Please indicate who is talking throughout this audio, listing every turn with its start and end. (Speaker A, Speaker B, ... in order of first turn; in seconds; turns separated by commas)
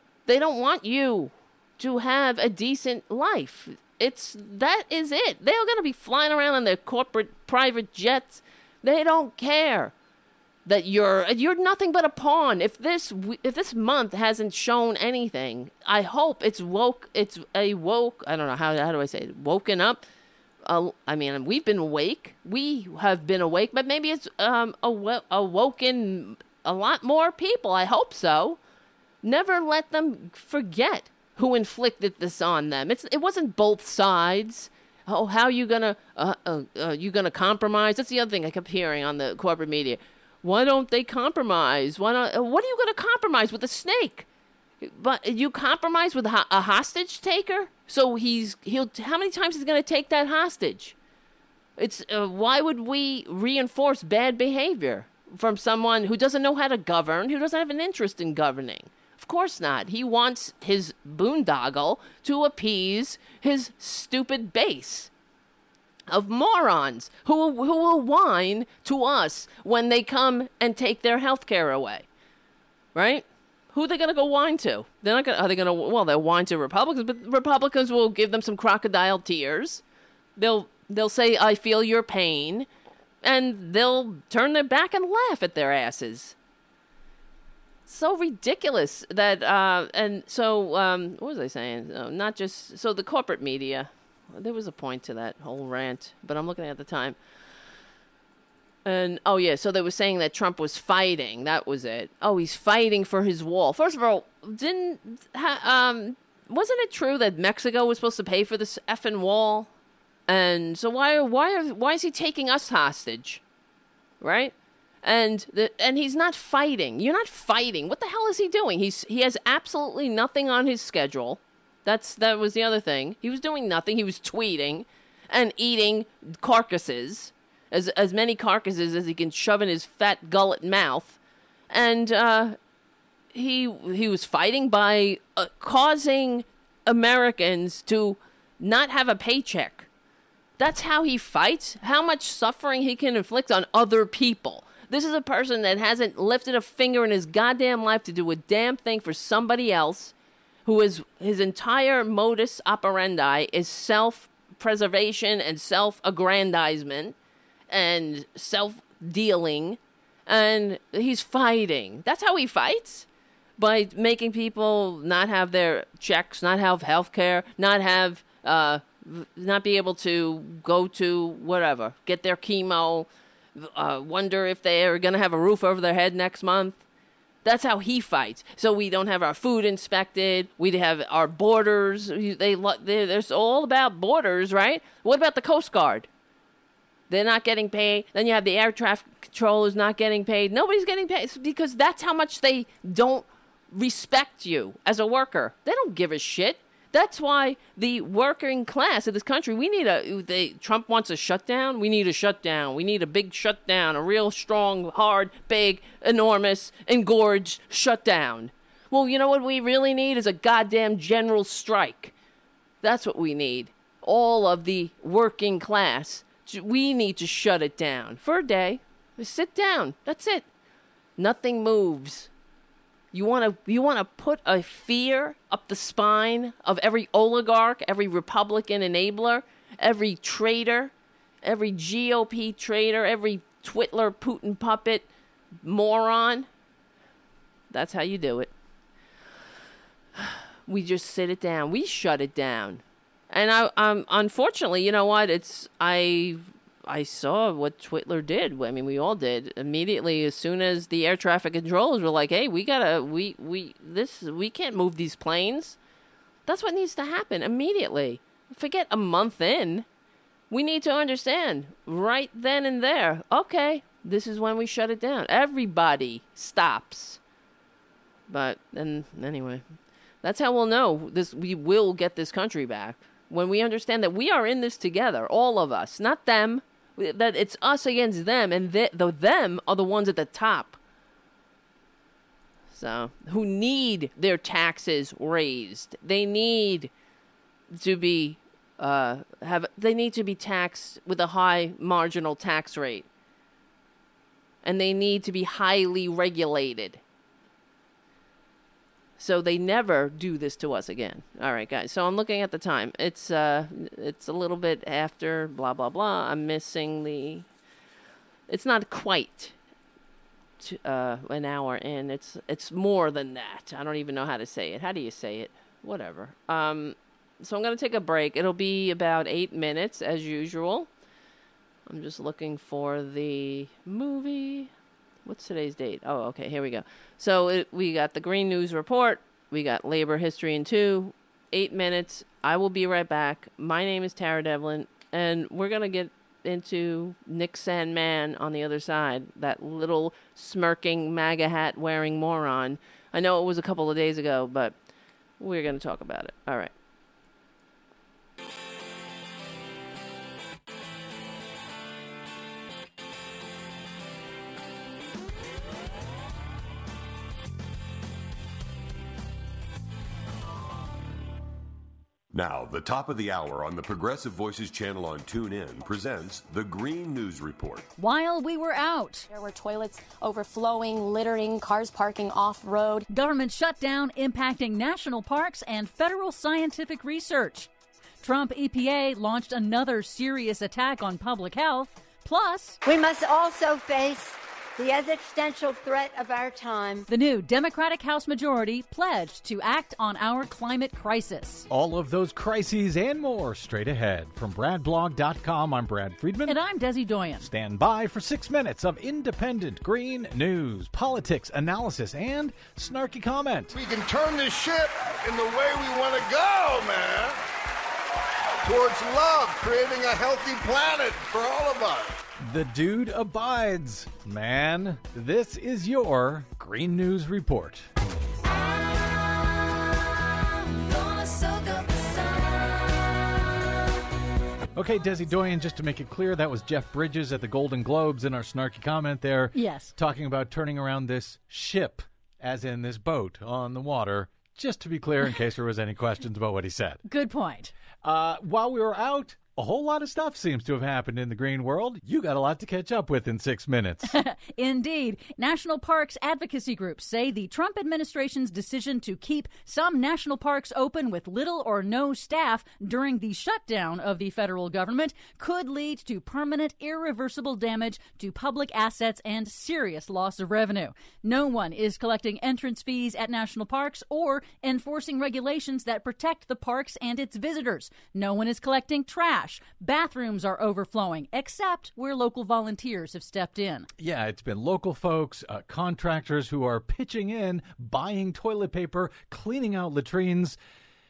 Speaker A: 0.3-9.9, Speaker A: 10.7-20.1, Speaker A: 20.6-28.6, Speaker A: 29.2-44.3, Speaker A: 44.8-51.0, Speaker A: 51.8-65.1, Speaker A: 66.1-72.1, Speaker A: 73.0-79.8, Speaker A: 80.4-82.7, Speaker A: 83.2-86.3, Speaker A: 87.9-97.2, Speaker A: 98.8-109.7, Speaker A: 110.3-113.4, Speaker A: 114.2-131.2, Speaker A: 131.7-132.6, Speaker A: 133.3-139.9, Speaker A: 140.6-150.1, Speaker A: 150.7-157.2, Speaker A: 157.7-163.1, Speaker A: 163.6-176.8, Speaker A: 177.4-186.1, Speaker A: 187.1-212.1, Speaker A: 212.8-220.5, Speaker A: 221.2-222.3, Speaker A: 223.1-230.9, Speaker A: 231.4-235.1, Speaker A: 235.6-236.5, Speaker A: 237.7-238.5, Speaker A: 240.2-255.8, Speaker A: 256.5-259.9, Speaker A: 260.5-267.2, Speaker A: 268.3-269.6, Speaker A: 270.2-280.8, Speaker A: 282.7-286.9, Speaker A: 287.7-293.1, Speaker A: 294.6-297.0, Speaker A: 299.2-307.5, Speaker A: 308.5-309.6, Speaker A: 310.6-320.9, Speaker A: 321.9-324.7, Speaker A: 325.2-344.8, Speaker A: 345.4-346.7, Speaker B: 362.3-367.9, Speaker C: 368.0-369.3, Speaker D: 369.3-373.0, Speaker C: 373.1-377.7, Speaker C: 378.2-382.8, Speaker E: 382.8-387.1, Speaker C: 387.1-391.7, Speaker F: 391.7-396.6, Speaker C: 396.4-397.5, Speaker F: 397.4-403.8, Speaker G: 403.7-407.4, Speaker G: 408.6-412.2, Speaker F: 412.4-417.9, Speaker C: 421.0-422.4, Speaker F: 424.7-437.0, Speaker C: 429.5-429.9, Speaker C: 437.1-437.7, Speaker F: 438.0-444.1, Speaker C: 444.0-473.9, Speaker F: 474.0-480.6